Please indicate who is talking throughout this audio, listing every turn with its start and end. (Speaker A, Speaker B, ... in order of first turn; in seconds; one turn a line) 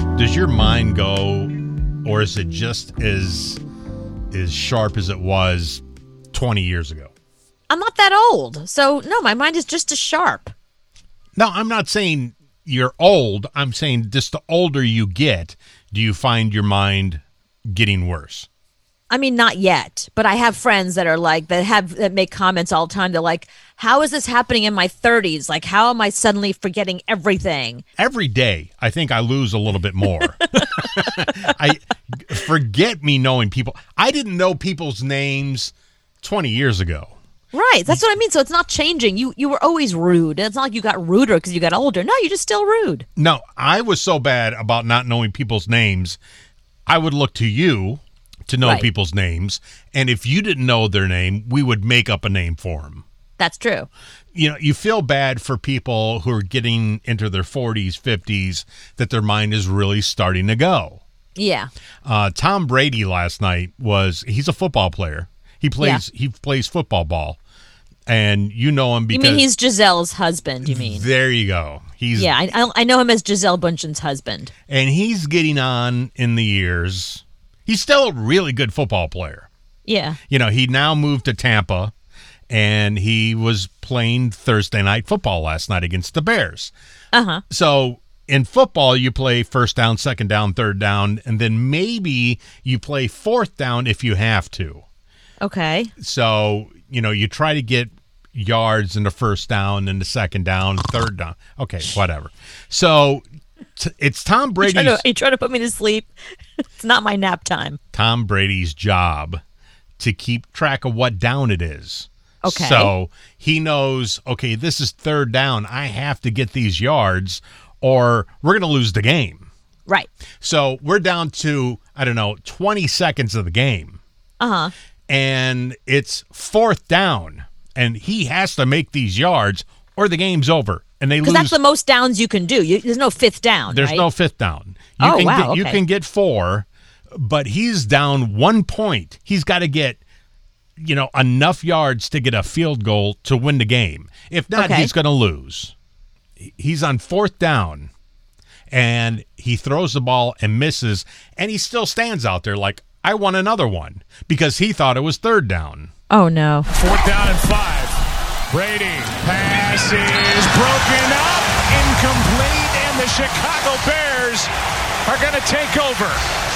Speaker A: 0.1-3.6
Speaker A: 4.3-7.1
Speaker B: 7.7-10.5
Speaker A: 11.3-18.5
Speaker B: 19.1-27.8
Speaker A: 28.0-37.2
Speaker B: 37.5-43.0
Speaker A: 43.1-46.2
Speaker A: 46.9-53.0
Speaker B: 48.6-48.9
Speaker B: 53.4-53.9
Speaker A: 54.3-61.0
Speaker B: 61.4-61.7
Speaker A: 62.0-67.4
Speaker A: 68.1-69.5
Speaker B: 69.1-71.1
Speaker A: 70.6-72.3
Speaker B: 72.1-74.5
Speaker A: 74.7-79.5
Speaker B: 79.8-80.2
Speaker A: 80.3-81.9
Speaker A: 82.5-86.7
Speaker B: 87.1-87.4
Speaker A: 87.5-94.8
Speaker B: 95.4-95.9
Speaker A: 96.0-103.2
Speaker A: 103.8-105.0
Speaker B: 104.6-106.1
Speaker B: 106.8-107.8
Speaker A: 107.9-109.4
Speaker A: 110.0-119.5
Speaker B: 112.4-112.9
Speaker A: 120.4-124.0
Speaker B: 124.4-124.7
Speaker A: 125.1-131.6
Speaker B: 131.2-134.1
Speaker A: 133.7-140.0
Speaker B: 135.0-135.8
Speaker A: 140.8-145.7
Speaker B: 144.6-144.9
Speaker A: 146.4-147.9
Speaker A: 148.7-155.9
Speaker B: 156.1-156.7
Speaker C: 156.7-158.0
Speaker C: 158.5-164.5
Speaker C: 165.0-166.2